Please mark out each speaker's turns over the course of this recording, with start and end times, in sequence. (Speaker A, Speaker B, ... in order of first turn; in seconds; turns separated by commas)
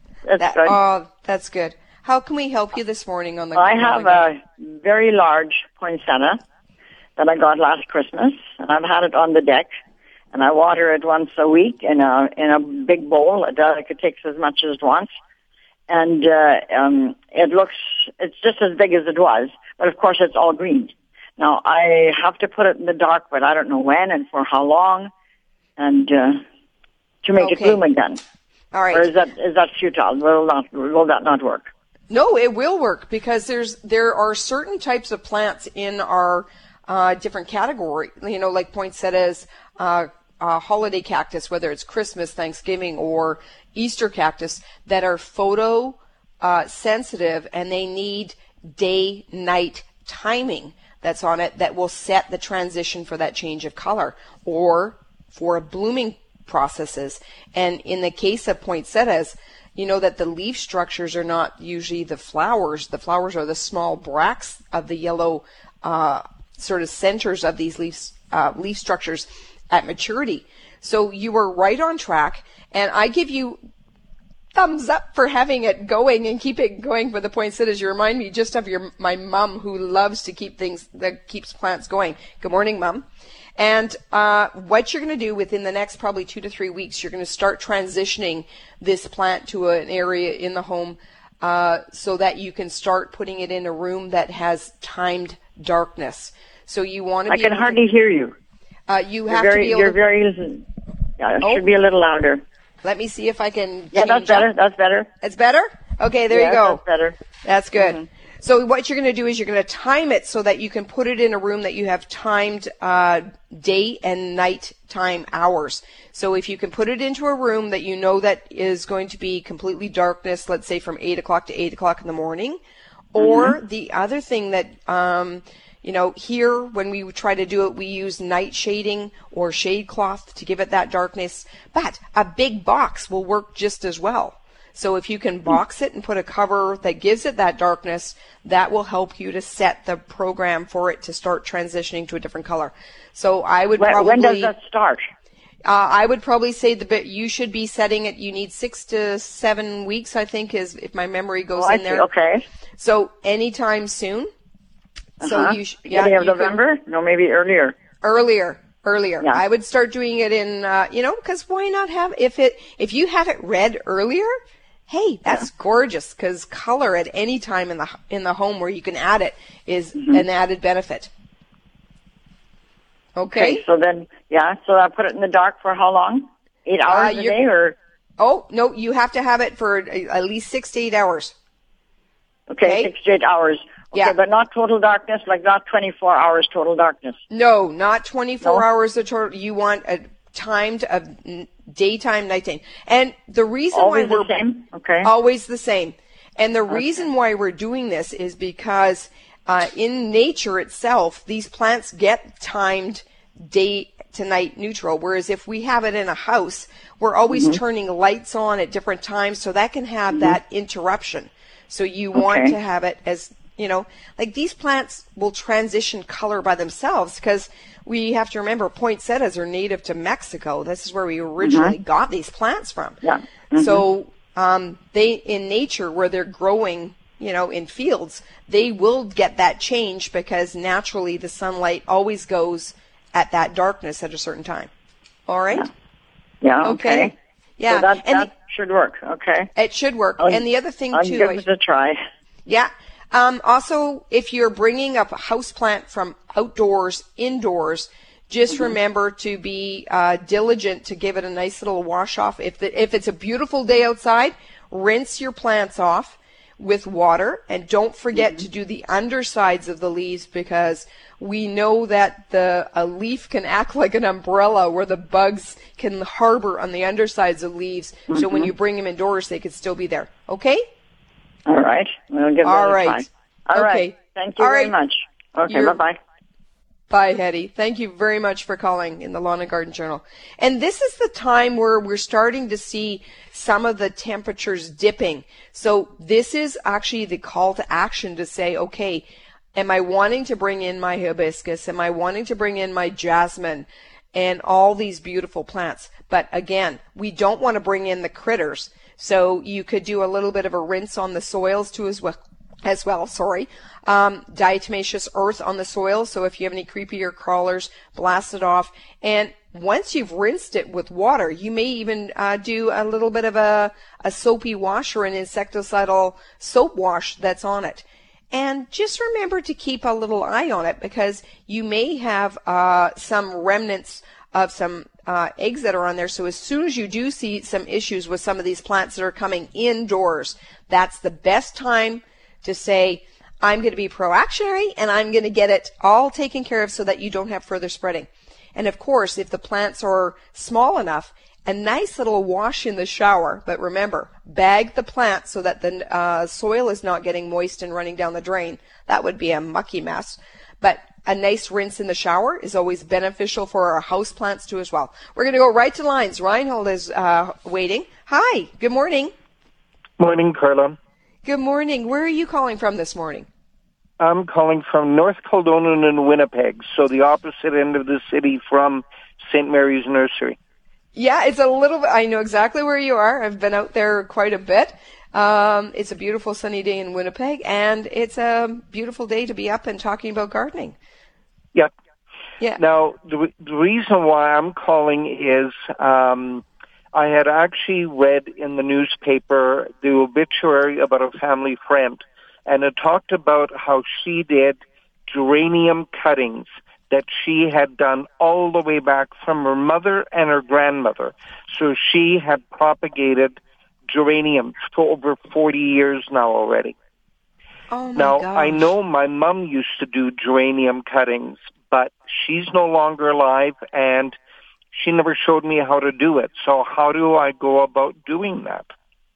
Speaker A: 0.2-0.8, Speaker B: 0.4-4.2, Speaker A: 3.5-6.4, Speaker A: 7.2-9.7, Speaker A: 10.3-15.1, Speaker A: 15.9-25.1, Speaker A: 25.8-26.4, Speaker A: 27.2-28.2, Speaker B: 27.4-27.8, Speaker B: 28.7-29.1, Speaker A: 28.9-31.7, Speaker B: 32.1-73.6, Speaker B: 74.5-83.0, Speaker B: 83.6-97.8, Speaker A: 97.3-98.3, Speaker B: 98.9-100.0, Speaker A: 99.3-100.7, Speaker A: 101.2-102.4, Speaker B: 102.8-104.5, Speaker A: 103.9-105.1, Speaker B: 105.2-106.8, Speaker A: 106.3-107.2, Speaker B: 107.4-122.6, Speaker A: 107.7-108.0, Speaker B: 123.1-144.5, Speaker A: 123.2-123.5, Speaker A: 143.8-145.1, Speaker B: 145.6-152.1, Speaker A: 151.5-152.4, Speaker B: 152.8-154.3, Speaker B: 155.2-156.6, Speaker A: 155.2-157.8, Speaker B: 158.0-164.3, Speaker B: 164.9-171.1, Speaker B: 173.2-173.6, Speaker A: 173.3-177.8, Speaker B: 176.9-177.4, Speaker B: 178.2-181.3, Speaker A: 182.5-187.2, Speaker B: 182.6-182.9, Speaker B: 187.3-194.4, Speaker A: 193.7-195.1, Speaker B: 195.0-223.0, Speaker A: 207.3-207.6, Speaker A: 212.1-212.5, Speaker A: 221.4-221.7, Speaker A: 223.0-223.8, Speaker B: 223.6-234.7, Speaker B: 235.3-235.7, Speaker A: 236.4-237.1, Speaker B: 236.6-238.3, Speaker A: 237.7-239.5, Speaker B: 239.5-241.4, Speaker A: 240.2-242.0, Speaker B: 242.4-270.6, Speaker A: 268.1-268.5, Speaker A: 271.4-276.0, Speaker B: 272.4-274.8, Speaker B: 275.4-275.8, Speaker B: 276.9-359.1, Speaker C: 360.0-360.8, Speaker B: 361.2-363.3, Speaker C: 364.0-370.4, Speaker B: 370.9-380.8, Speaker C: 382.6-394.6, Speaker C: 395.1-406.7, Speaker B: 407.7-408.7, Speaker C: 407.9-414.1, Speaker C: 414.7-418.7